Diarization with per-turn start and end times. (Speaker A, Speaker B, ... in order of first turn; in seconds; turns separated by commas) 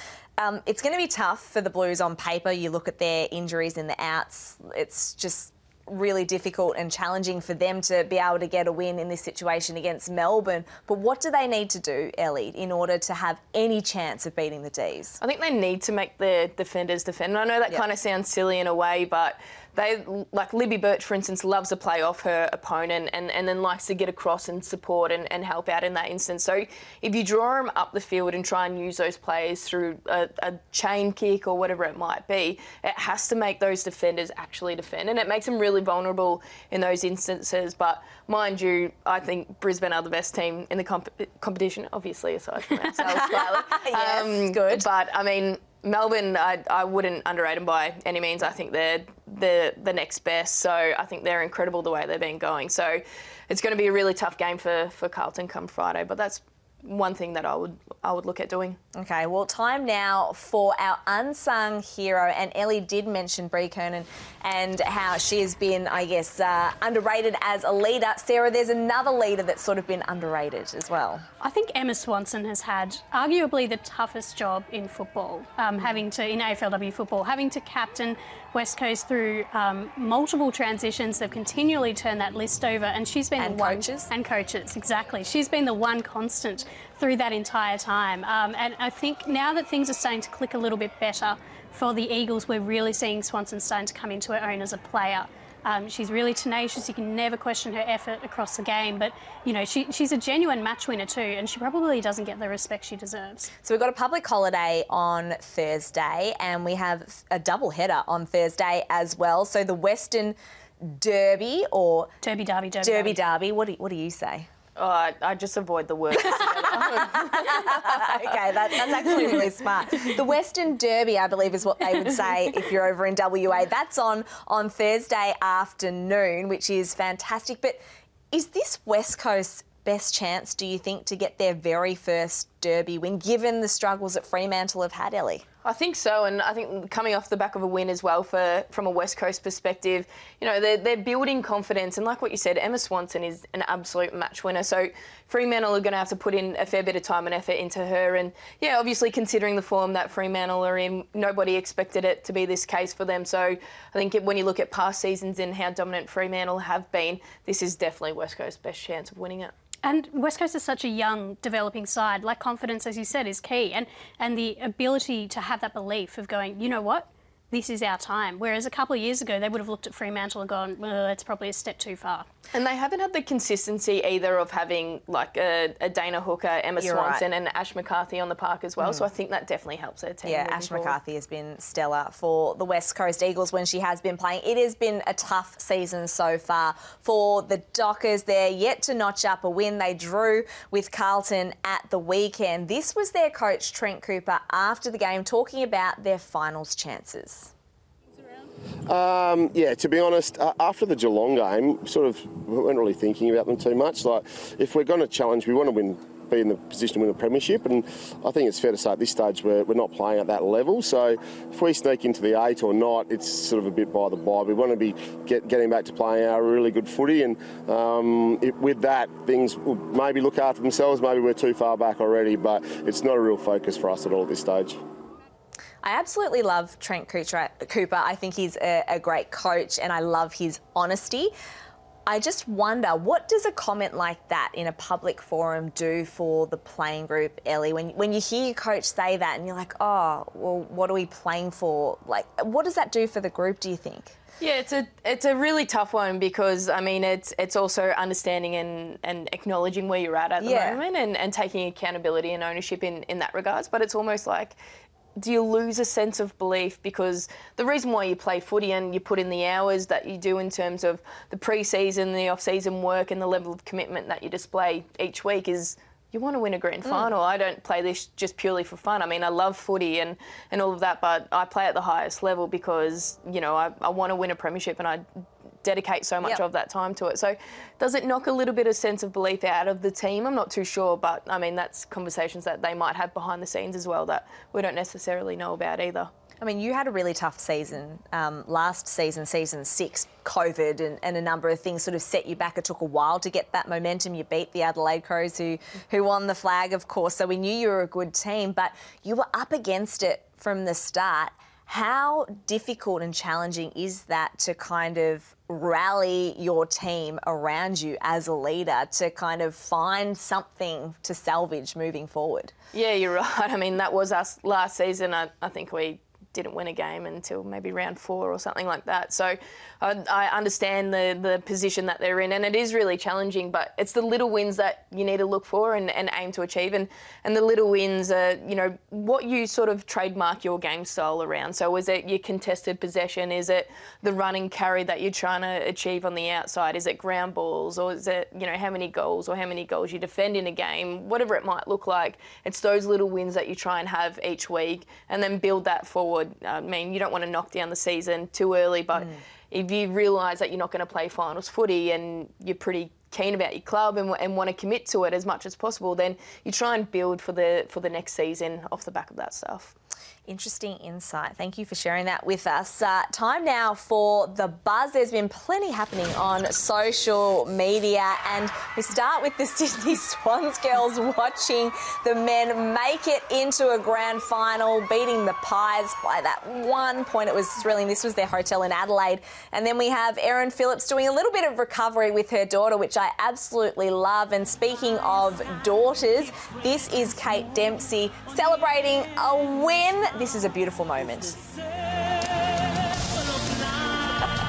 Speaker A: 0.4-15.2, Speaker B: 15.2-58.8, Speaker A: 43.0-44.9, Speaker A: 59.0-71.2, Speaker C: 71.4-103.5, Speaker A: 83.4-84.1, Speaker A: 103.6-112.1, Speaker C: 112.2-113.2, Speaker A: 112.8-114.5, Speaker B: 114.8-118.2, Speaker A: 116.4-135.4, Speaker B: 135.7-159.5, Speaker C: 159.8-172.3, Speaker B: 172.5-181.0, Speaker A: 176.8-177.2, Speaker A: 180.2-197.5, Speaker D: 198.9-224.8, Speaker A: 225.8-231.3, Speaker A: 232.1-244.2, Speaker B: 244.4-254.6, Speaker A: 250.4-250.8, Speaker B: 255.2-275.0, Speaker B: 275.6-286.1, Speaker A: 286.4-312.5, Speaker B: 312.7-359.8, Speaker A: 360.3-391.4